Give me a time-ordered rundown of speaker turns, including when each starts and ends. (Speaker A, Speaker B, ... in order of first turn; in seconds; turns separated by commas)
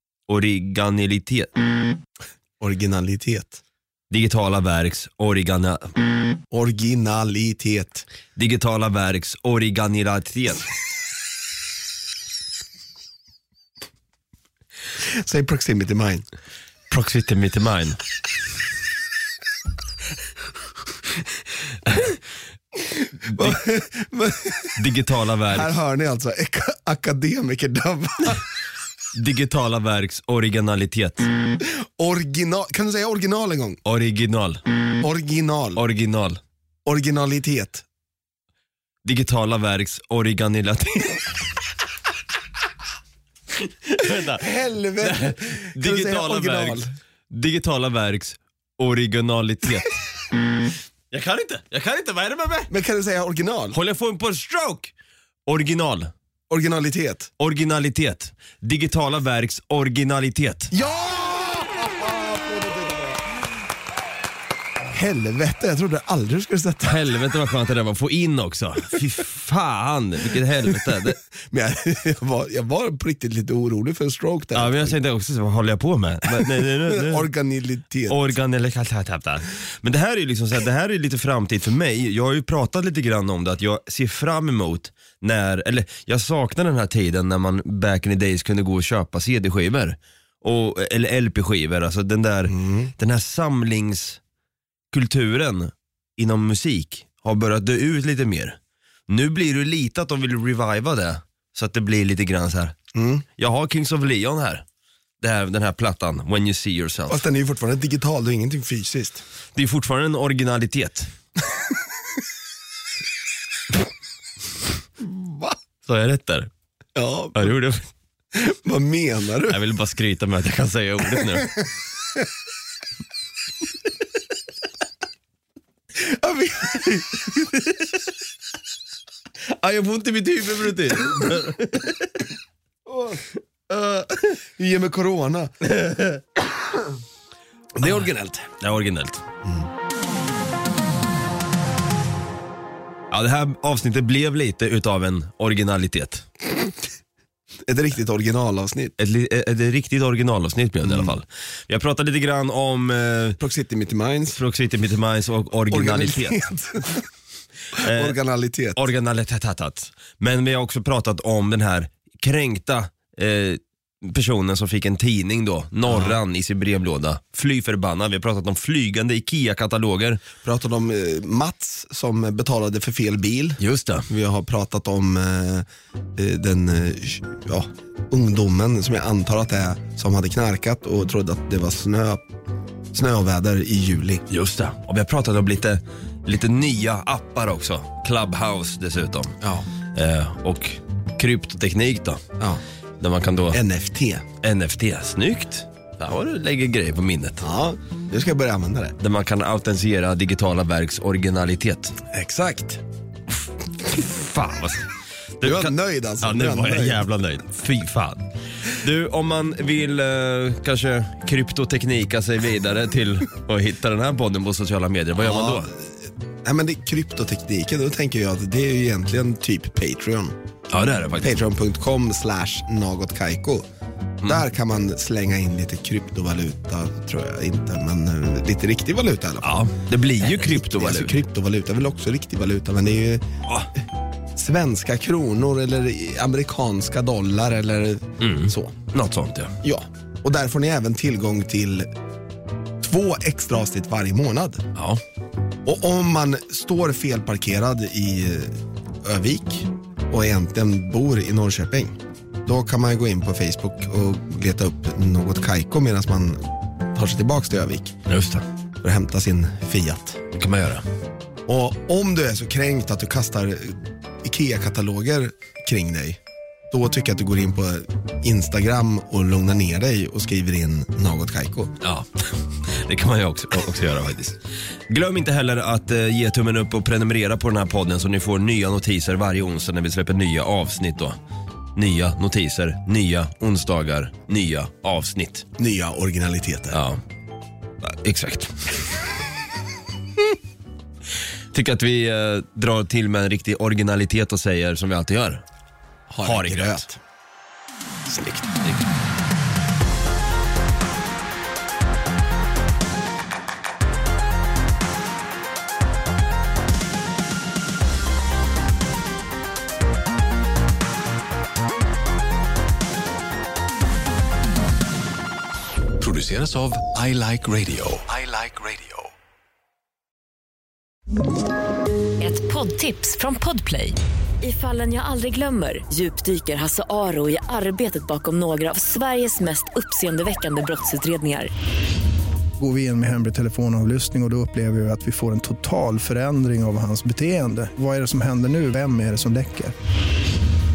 Speaker A: 0.3-1.5, Speaker B: 2.6-3.6, Speaker A: 4.1-5.9, Speaker B: 6.5-8.1, Speaker A: 8.4-10.7, Speaker B: 15.0-16.3, Speaker A: 16.9-18.0, Speaker A: 21.9-22.2, Speaker B: 22.8-24.8, Speaker A: 23.3-23.6, Speaker A: 24.8-25.7, Speaker B: 25.5-28.4, Speaker A: 29.1-31.3, Speaker B: 31.6-33.8, Speaker A: 33.9-34.6, Speaker B: 35.0-35.8, Speaker A: 35.8-36.4, Speaker B: 36.9-37.9, Speaker A: 39.0-41.3, Speaker A: 43.9-44.5, Speaker B: 44.0-46.9, Speaker A: 45.0-49.9, Speaker A: 51.1-52.7, Speaker B: 52.7-53.8, Speaker A: 53.7-54.9, Speaker A: 55.5-56.1, Speaker B: 56.5-57.3, Speaker A: 57.4-60.7, Speaker B: 60.7-63.3, Speaker B: 64.9-67.0, Speaker A: 66.8-71.2, Speaker B: 70.7-75.0, Speaker A: 74.5-77.3, Speaker B: 76.3-78.3, Speaker A: 78.1-94.2, Speaker B: 92.5-92.9, Speaker A: 94.9-98.6, Speaker A: 99.1-102.8, Speaker B: 102.9-103.2, Speaker A: 103.4-104.7, Speaker A: 105.2-107.2, Speaker B: 107.1-109.2, Speaker A: 109.5-111.1, Speaker B: 115.0-115.6, Speaker A: 115.8-116.5, Speaker B: 117.0-117.5, Speaker A: 117.3-117.9, Speaker B: 118.3-119.6, Speaker A: 119.5-121.5, Speaker B: 121.1-122.2, Speaker B: 125.9-127.5, Speaker A: 129.5-132.2, Speaker B: 132.9-135.5, Speaker A: 135.7-136.2, Speaker B: 137.8-138.5, Speaker A: 137.8-138.1, Speaker A: 138.6-139.2, Speaker B: 139.4-139.7, Speaker A: 143.1-146.3, Speaker B: 147.7-148.9, Speaker A: 149.0-153.4, Speaker B: 150.8-151.2, Speaker B: 153.4-154.4, Speaker A: 154.3-156.5, Speaker B: 155.7-157.1, Speaker A: 157.7-158.2, Speaker B: 157.8-158.9, Speaker A: 158.8-170.2, Speaker B: 165.9-166.2, Speaker B: 170.4-182.2, Speaker A: 173.6-174.1, Speaker B: 182.9-184.2, Speaker A: 184.3-189.4, Speaker B: 189.4-189.7, Speaker A: 189.9-192.2, Speaker A: 193.0-193.6, Speaker B: 193.5-194.2, Speaker A: 194.4-197.5, Speaker B: 197.4-199.0, Speaker A: 199.0-202.0, Speaker B: 202.1-202.8, Speaker A: 203.8-215.7, Speaker B: 205.4-207.1, Speaker B: 215.2-220.4, Speaker A: 220.7-221.4, Speaker B: 221.2-223.7, Speaker B: 224.2-229.6, Speaker A: 229.4-231.2, Speaker B: 230.2-233.3, Speaker B: 234.3-238.8, Speaker A: 238.2-239.6, Speaker B: 239.6-241.9, Speaker B: 242.8-244.7, Speaker A: 244.8-245.0, Speaker B: 245.7-258.0, Speaker A: 258.1-258.4, Speaker B: 258.8-260.2, Speaker A: 260.4-260.9, Speaker B: 261.5-266.2, Speaker B: 266.7-271.8, Speaker A: 271.8-281.2, Speaker A: 281.8-285.5, Speaker B: 285.6-286.8, Speaker A: 286.7-287.0, Speaker A: 287.8-288.8, Speaker A: 291.5-295.4, Speaker B: 296.1-296.9, Speaker A: 296.2-296.9, Speaker B: 298.1-298.5, Speaker C: 316.0-319.1, Speaker D: 322.2-331.5, Speaker E: 332.6-339.8